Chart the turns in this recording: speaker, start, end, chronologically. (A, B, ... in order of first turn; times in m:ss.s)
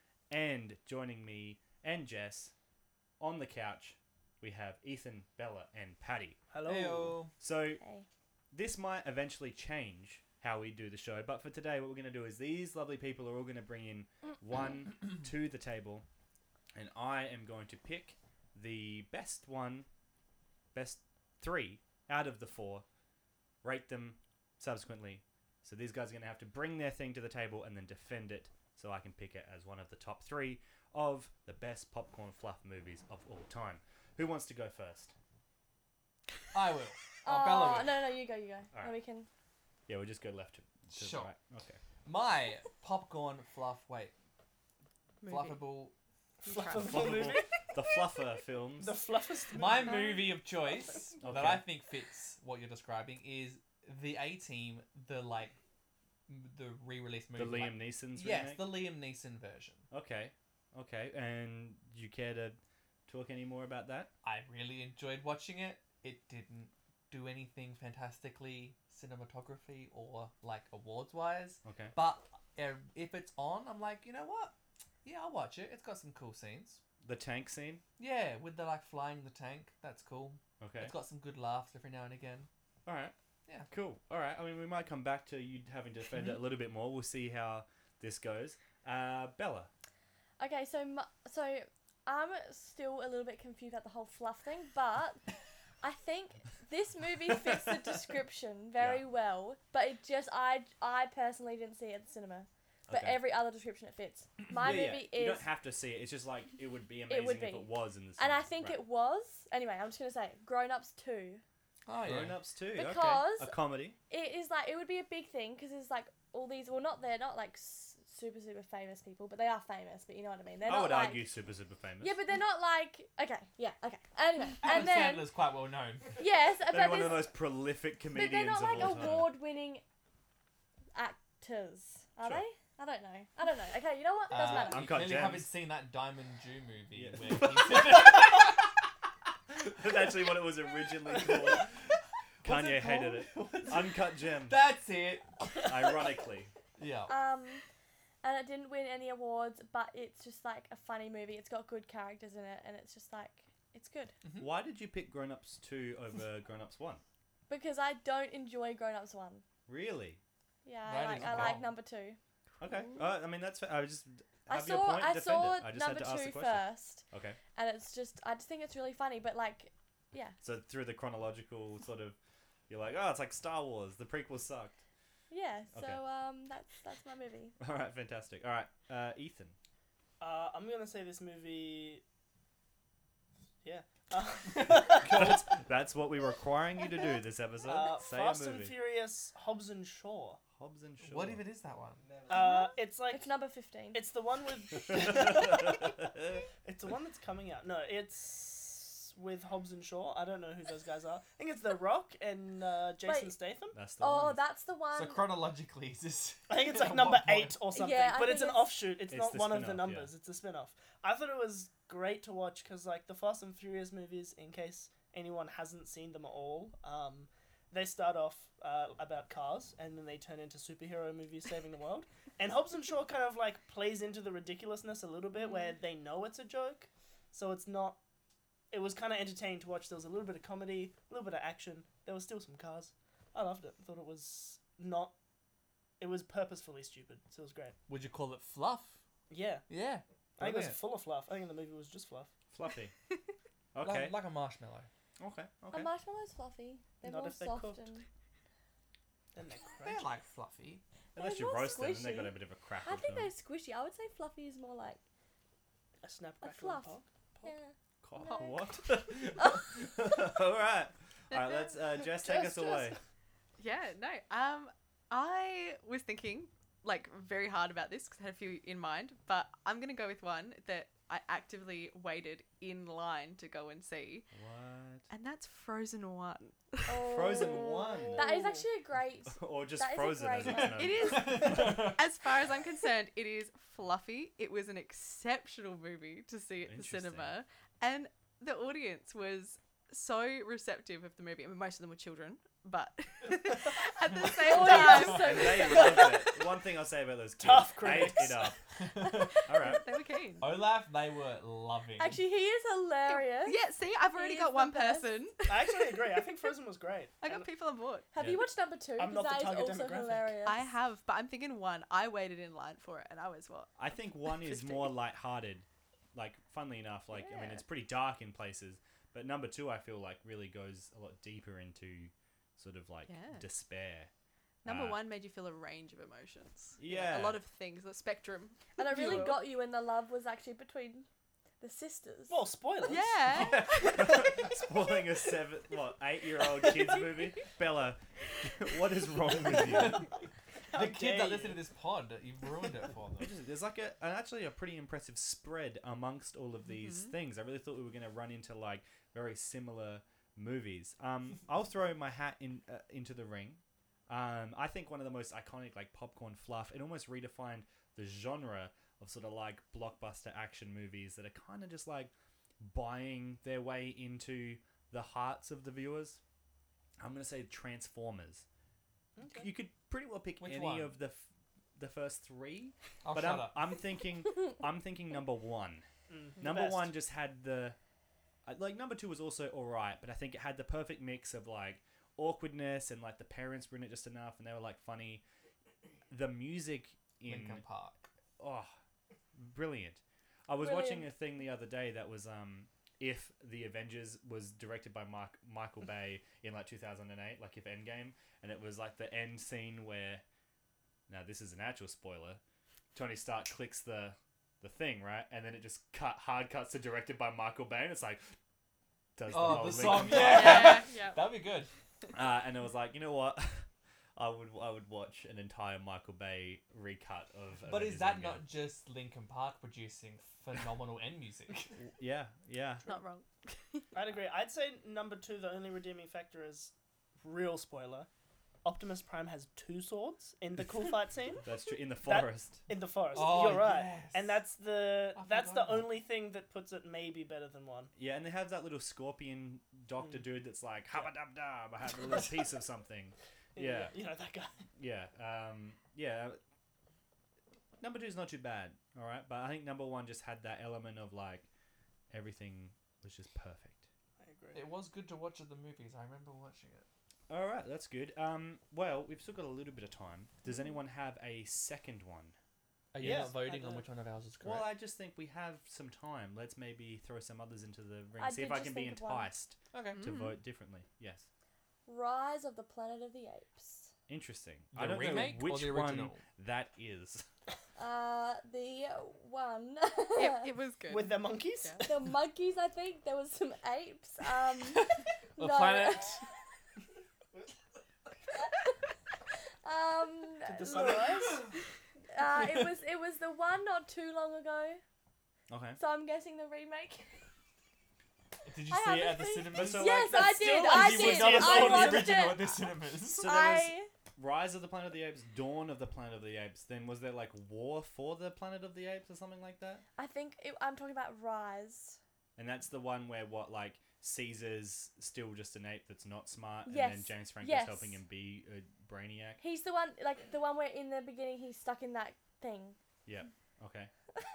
0:00.3-0:02.5 A
0:03.2-0:06.4 A
0:06.5-0:07.2 B
0:06.6-0:07.3 C
0:07.4-0:07.8 A
0:07.8-0:08.0 D
0:08.5-0:16.0 A
0:16.7-0:19.9 A
0:20.7-0:22.8 A
0:23.6-0:35.1 A
0:36.5-0:38.0 C
0:37.2-0:39.3 D
0:38.7-0:39.0 A
0:39.9-0:41.8 A
0:40.9-0:41.3 C
0:42.0-0:44.1 C
0:45.2-0:45.6 E
0:45.2-0:45.9 C
0:46.4-0:47.6 B
0:46.4-0:47.4 E
0:46.7-0:49.0 A
0:48.8-0:50.2 B
0:49.5-0:55.5 C
0:51.2-0:51.6 A
0:56.3-0:59.8 C
0:57.4-0:58.7 A
0:59.9-1:04.1 A
1:04.2-1:16.8 C
1:11.6-1:11.9 A
1:17.0-1:17.8 A
1:18.0-1:22.5 C
1:20.6-1:20.9 A
1:22.8-1:23.1 A
1:23.7-1:29.7 A
1:30.4-1:35.2 D
1:35.8-1:45.5 D
1:38.8-1:39.0 A
1:42.9-1:43.2 A
1:44.5-1:48.8 A
1:47.1-1:51.4 D
1:51.9-1:52.4 C
1:52.0-1:54.0 A
1:52.7-2:01.3 D
2:00.6-2:02.2 A
2:02.0-2:05.3 D
2:04.6-2:06.2 C
2:06.2-2:07.3 D
2:06.7-2:09.3 A
2:08.1-2:09.8 D
2:10.9-2:15.0 D
2:14.3-2:18.6 C
2:14.4-2:15.5 A
2:16.9-2:18.5 A
2:19.5-2:21.7 A
2:21.2-2:21.7 C
2:22.4-2:26.1 C
2:22.4-2:24.6 A
2:25.6-2:26.5 A
2:26.8-2:27.2 C
2:27.1-2:27.6 D
2:28.2-2:34.1 D
2:34.2-2:34.5 C
2:34.4-2:37.0 A
2:37.5-2:39.4 D
2:39.7-2:40.2 A
2:40.6-2:42.2 D
2:40.8-2:41.7 C
2:42.6-2:47.4 A
2:44.5-2:50.4 D
2:50.4-2:52.2 A
2:52.7-2:54.8 A
2:55.3-2:57.6 D
2:55.7-2:56.0 A
2:57.6-2:59.5 A
3:00.2-3:02.0 B
3:03.6-3:05.5 B
3:05.0-3:08.7 A
3:07.6-3:10.4 B
3:10.6-3:11.4 A
3:11.0-3:12.2 C
3:12.3-3:13.3 B
3:12.3-3:14.0 D
3:13.9-3:23.8 B
3:14.9-3:15.7 A
3:23.0-3:23.3 D
3:23.7-3:24.4 A
3:24.0-3:25.3 D
3:24.9-3:27.6 C
3:26.5-3:48.0 B
3:27.7-3:28.7 D
3:29.1-3:30.1 A
3:48.7-3:55.1 B
3:56.0-3:57.8 B
3:57.9-3:59.0 C
3:59.3-3:59.7 B
3:59.7-4:00.8 C
4:00.4-4:02.3 B
4:02.5-4:02.9 A
4:03.7-4:04.2 A
4:03.8-4:04.9 C
4:05.2-4:05.9 A
4:05.7-4:08.0 D
4:07.0-4:07.8 B
4:09.3-4:10.1 B
4:09.8-4:10.8 C
4:11.1-4:13.3 A
4:11.2-4:15.0 D
4:16.0-4:17.5 B
4:16.4-4:18.7 D
4:18.0-4:23.0 A
4:18.2-4:18.8 E
4:19.3-4:19.7 D
4:21.3-4:21.7 E
4:22.2-4:23.0 B
4:23.6-4:34.3 E
4:34.3-4:35.1 A
4:35.1-4:37.0 E
4:36.8-4:40.8 D
4:37.0-4:38.4 A
4:37.6-4:38.6 B
4:39.3-4:41.9 A
4:40.5-4:42.0 C
4:40.7-4:56.0 E
4:46.6-4:47.4 A
4:54.2-4:56.2 D
4:54.8-4:58.6 A
4:55.7-4:56.4 B
4:57.4-4:58.5 B
4:58.7-4:59.5 C
4:59.4-4:59.8 A
4:59.5-5:00.5 E
5:00.4-5:02.2 C
5:02.0-5:03.6 D
5:03.1-5:06.2 E
5:04.1-5:05.1 D
5:05.5-5:07.5 B
5:07.2-5:08.1 E
5:08.1-5:10.7 D
5:08.2-5:08.4 A
5:09.0-5:10.4 B
5:10.4-5:13.7 E
5:13.8-5:24.1 A
5:14.2-5:14.9 E
5:23.1-5:23.4 E
5:24.6-5:29.5 E
5:24.6-5:25.0 A
5:26.8-5:27.4 A
5:28.8-5:31.1 D
5:29.0-5:29.2 B
5:31.6-5:32.4 D
5:32.3-5:34.7 B
5:32.8-5:34.2 E
5:33.3-5:40.1 A
5:39.5-5:40.1 C
5:40.7-5:41.6 B
5:40.7-5:43.3 C
5:43.2-6:06.2 A
5:46.8-5:47.1 E
6:07.0-6:08.4 A
6:09.2-6:09.5 B
6:09.4-6:15.9 A
6:10.4-6:10.9 C
6:13.0-6:13.6 C
6:16.1-6:16.9 B
6:16.4-6:17.8 A
6:18.4-6:25.2 A
6:26.1-6:27.6 A
6:27.2-6:28.1 C
6:28.4-6:28.7 A
6:29.3-6:40.2 A
6:30.6-6:31.1 D
6:41.1-6:42.4 A
6:42.9-6:48.3 A
6:49.2-6:50.8 A
6:49.3-6:51.7 C
6:50.0-6:51.3 E
6:52.1-6:58.4 A
6:57.6-7:01.8 C
7:01.8-7:02.8 A
7:02.8-7:03.9 E
7:03.9-7:08.1 B
7:08.6-7:11.4 B
7:10.6-7:12.6 A
7:12.0-7:17.9 B
7:13.1-7:14.4 C
7:15.1-7:15.9 C
7:18.0-7:24.0 A
7:21.9-7:22.2 B
7:23.5-7:24.7 B
7:24.8-7:26.4 A
7:27.8-7:31.5 A
7:32.1-7:33.8 A
7:34.2-7:34.7 B
7:34.5-7:36.8 C
7:37.3-7:42.4 A
7:42.9-7:44.7 C
7:43.0-7:43.9 B
7:44.4-7:51.3 A
7:48.2-7:49.3 D
7:49.7-7:50.0 C
7:49.9-7:50.4 E
7:51.9-7:53.9 D
7:54.1-7:57.2 A
7:54.7-7:56.2 C
7:57.8-8:00.6 D
8:00.1-8:01.8 E
8:00.9-8:02.1 B
8:01.8-8:06.2 D
8:04.7-8:06.2 C
8:08.3-8:08.7 D
8:09.6-8:11.4 D
8:10.4-8:11.5 B
8:12.1-8:14.8 D
8:15.5-8:15.8 A
8:15.8-8:17.2 D
8:18.4-8:23.3 C
8:18.6-8:23.9 D
8:19.5-8:20.2 A
8:20.1-8:22.2 B
8:23.0-8:29.8 A
8:30.0-8:32.0 D
8:32.4-8:39.4 A
8:36.7-8:38.0 D
8:39.4-8:42.8 D
8:43.0-8:43.9 A